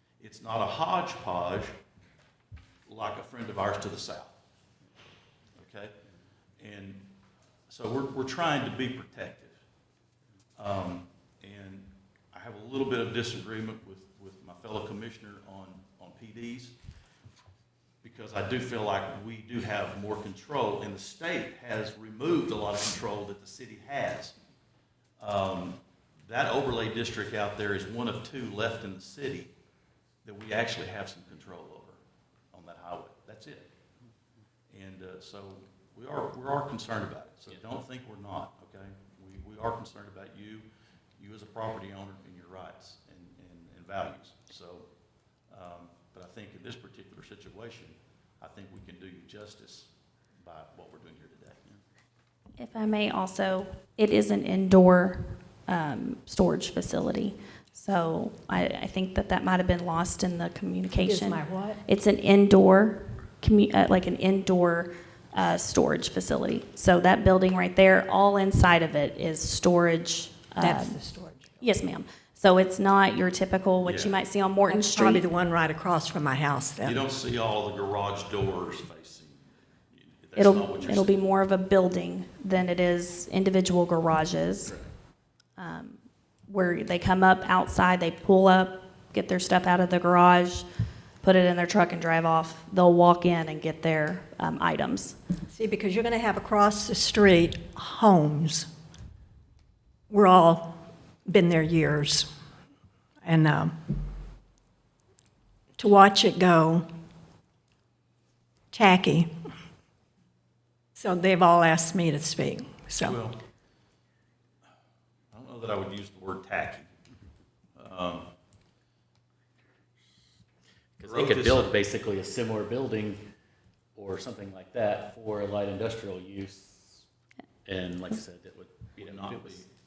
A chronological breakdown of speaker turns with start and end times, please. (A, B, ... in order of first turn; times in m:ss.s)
0:00.2-0:01.8 A
0:02.9-0:04.4 A
0:05.6-0:06.0 A
0:06.6-0:07.1 A
0:07.7-0:09.6 A
0:10.6-0:16.8 A
0:18.0-0:24.4 A
0:25.2-0:29.5 A
0:30.2-0:32.0 A
0:32.5-0:33.7 A
0:34.7-0:40.7 A
0:41.2-0:44.9 A
0:45.5-0:49.9 A
0:50.4-0:51.8 A
0:52.6-1:11.0 B
1:01.1-1:01.8 C
1:10.6-1:11.6 C
1:11.6-1:15.3 B
1:13.8-1:14.2 A
1:14.7-1:17.0 C
1:16.8-1:21.2 A
1:20.4-1:24.7 B
1:24.6-1:24.9 A
1:25.6-1:30.6 B
1:31.2-1:35.2 B
1:35.5-1:38.7 C
1:40.1-1:42.3 C
1:43.2-1:43.8 C
1:45.8-1:46.9 C
1:48.7-1:49.5 C
1:51.0-1:53.2 C
1:53.0-1:53.4 A
1:55.3-1:56.9 A
1:57.8-1:58.3 A
2:01.0-2:03.2 D
2:01.0-2:01.7 A
2:04.0-2:07.0 D
2:07.7-2:09.7 D
2:09.0-2:09.6 A